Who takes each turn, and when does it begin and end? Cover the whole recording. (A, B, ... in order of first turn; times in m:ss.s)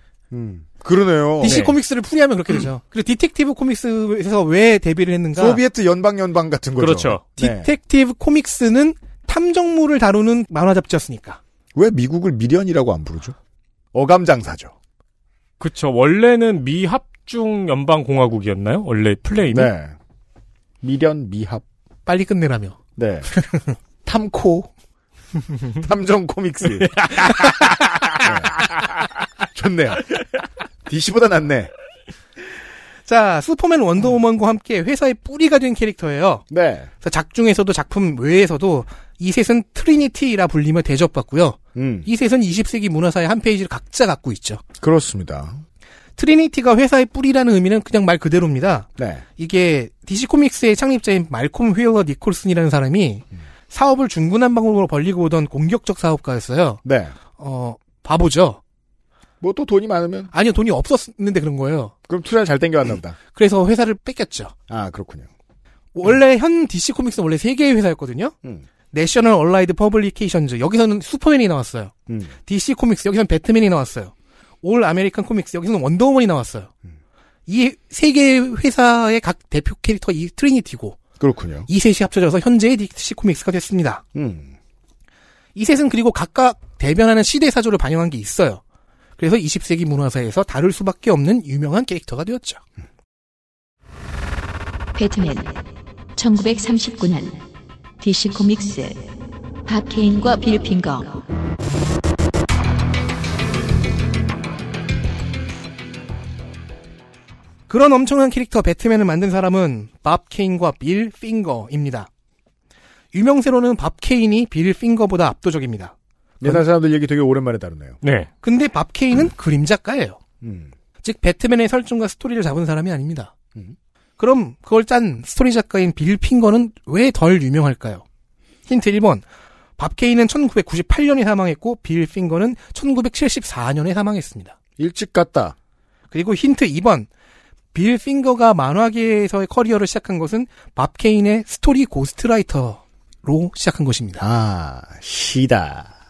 0:00.3-0:01.6 A
0:01.4-0:05.6 B
0:01.5-0:01.7 C
0:05.4-0:07.7 A
0:06.8-0:07.2 C
0:07.4-0:11.4 B
0:11.8-0:13.4 A
0:13.9-0:14.7 A
0:15.6-0:19.7 C
0:19.5-0:20.0 A
0:20.8-0:21.6 A
0:22.1-0:22.8 B
0:23.0-0:23.3 A
0:23.3-0:23.8 B
0:24.0-0:24.7 A
0:25.8-0:27.6 A
0:28.2-0:28.6 A
0:29.5-0:30.3 A
0:30.9-0:31.7 A
0:33.1-0:36.4 B
0:36.5-0:36.9 A
0:37.0-0:44.6 B
0:41.8-0:42.1 A
0:44.8-0:45.6 A
0:46.2-0:56.8 B
0:49.0-0:49.2 A
0:56.8-0:57.2 A
0:57.4-0:58.6 B
0:59.4-1:00.3 A
1:00.3-1:01.9 B
1:02.1-1:03.2 A
1:03.3-1:04.5 B
1:04.7-1:05.3 A
1:06.0-1:08.4 B
1:08.9-1:11.9 B
1:12.1-1:12.3 A
1:12.5-1:16.7 B
1:17.5-1:21.0 B
1:21.2-1:21.7 A
1:21.7-1:24.0 B
1:24.2-1:24.6 A
1:25.6-1:28.6 B
1:29.2-1:32.6 B
1:35.0-1:35.6 D
1:36.2-1:37.4 D
1:38.0-1:39.1 D
1:39.7-1:41.2 D
1:47.7-1:52.1 B
1:53.1-1:56.6 B
1:56.4-1:58.0 A
1:58.0-1:58.3 C
1:58.4-2:00.2 B
2:00.4-2:00.7 A
2:01.0-2:03.3 B
2:04.2-2:08.0 B
2:08.7-2:09.2 B
2:09.8-2:14.5 B
2:14.8-2:15.6 A
2:16.1-2:17.1 B
2:17.7-2:24.2 B
2:24.2-2:25.9 A